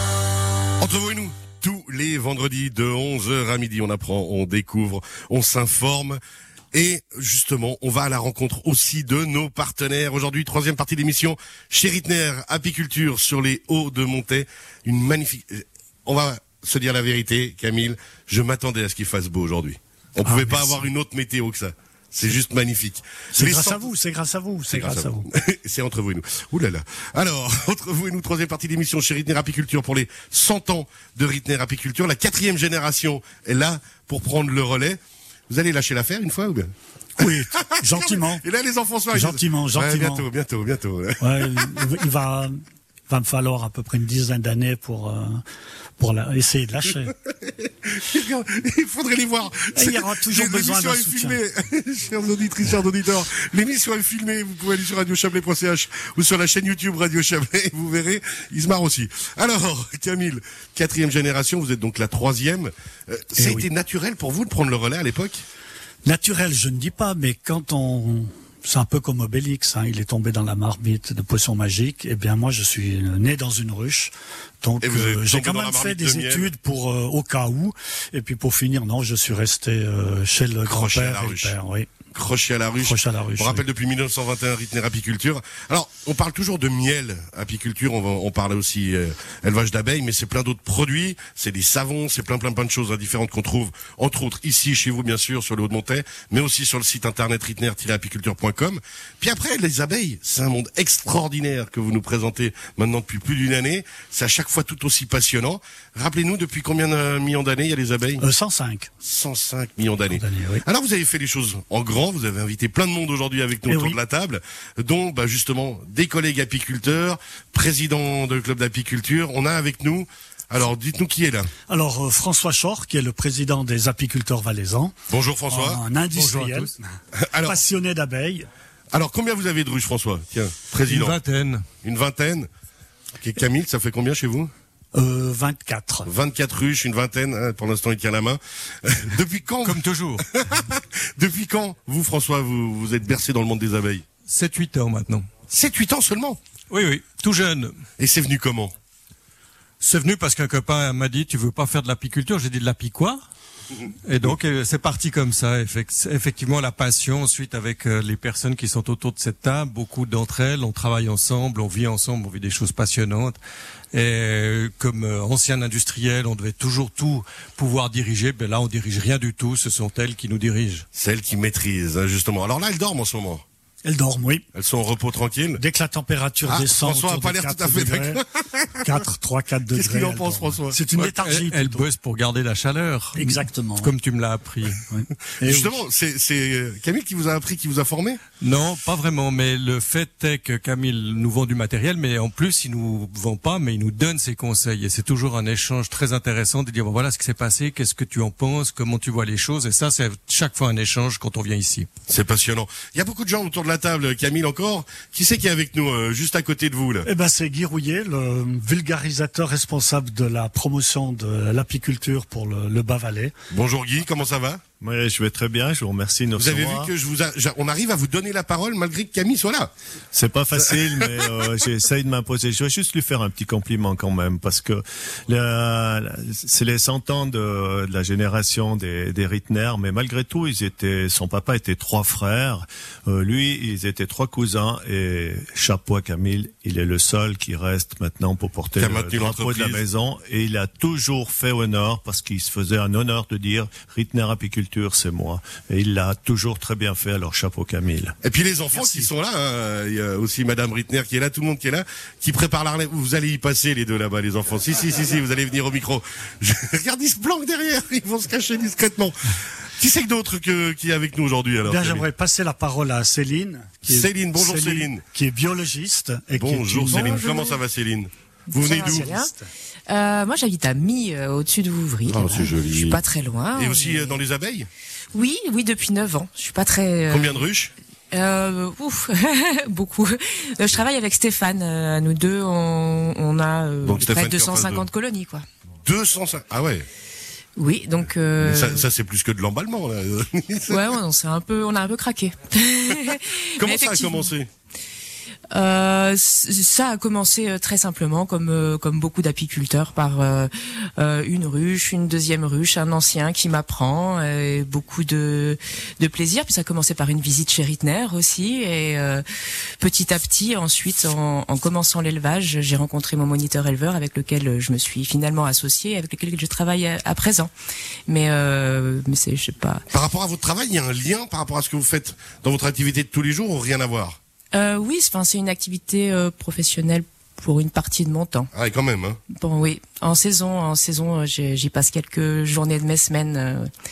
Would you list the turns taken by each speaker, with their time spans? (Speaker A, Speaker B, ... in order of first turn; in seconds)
Speaker A: 0.8-6.2, 6.7-23.9, 24.7-36.7, 37.3-41.9, 47.4-65.4, 74.8-76.5, 80.7-81.5, 82.1-108.2, 109.0-121.5, 125.1-125.8, 127.2-127.6, 128.9-131.2, 131.8-132.5, 133.2-134.5, 136.1-144.0, 145.5-146.4, 148.0-148.7, 170.9-173.4, 174.5-175.6, 176.4-179.0, 179.7-180.8, 185.4-188.2, 202.1-207.1, 213.5-214.6, 216.3-219.7, 238.8-239.8, 248.2-262.0, 263.8-265.0, 266.3-269.1, 272.1-273.0, 273.5-274.7, 277.1-277.7, 283.8-284.9, 285.8-286.9, 288.4-290.9, 293.6-294.5, 319.9-324.2, 328.5-329.2
Speaker B: 20.2-20.8, 23.3-25.2, 37.2-38.4, 39.1-40.3, 41.2-42.6, 43.1-45.4, 46.0-47.1, 49.7-51.4, 63.4-63.7, 66.0-81.9, 82.8-83.6, 108.2-108.9, 110.1-110.6, 113.7-114.0, 121.7-124.9, 125.5-126.8, 127.4-128.5, 134.9-136.1, 173.8-174.4, 175.6-178.2, 178.8-181.8, 183.2-183.9, 184.9-185.8, 207.0-213.3, 261.6-267.3, 268.6-269.4
Speaker C: 126.1-126.7, 130.8-131.7, 139.6-140.2, 144.2-145.3, 146.7-147.8, 149.8-153.2, 154.0-163.4, 163.9-170.8, 180.9-184.8, 188.4-201.9
Speaker D: 214.8-216.9, 220.1-248.2
Speaker E: 266.9-267.6, 268.5-269.3, 269.9-274.2, 275.1-277.4, 278.1-285.4, 287.6-288.8, 290.7-294.3, 295.5-309.2, 309.8-317.5, 318.1-319.8, 324.5-328.5, 329.3-333.7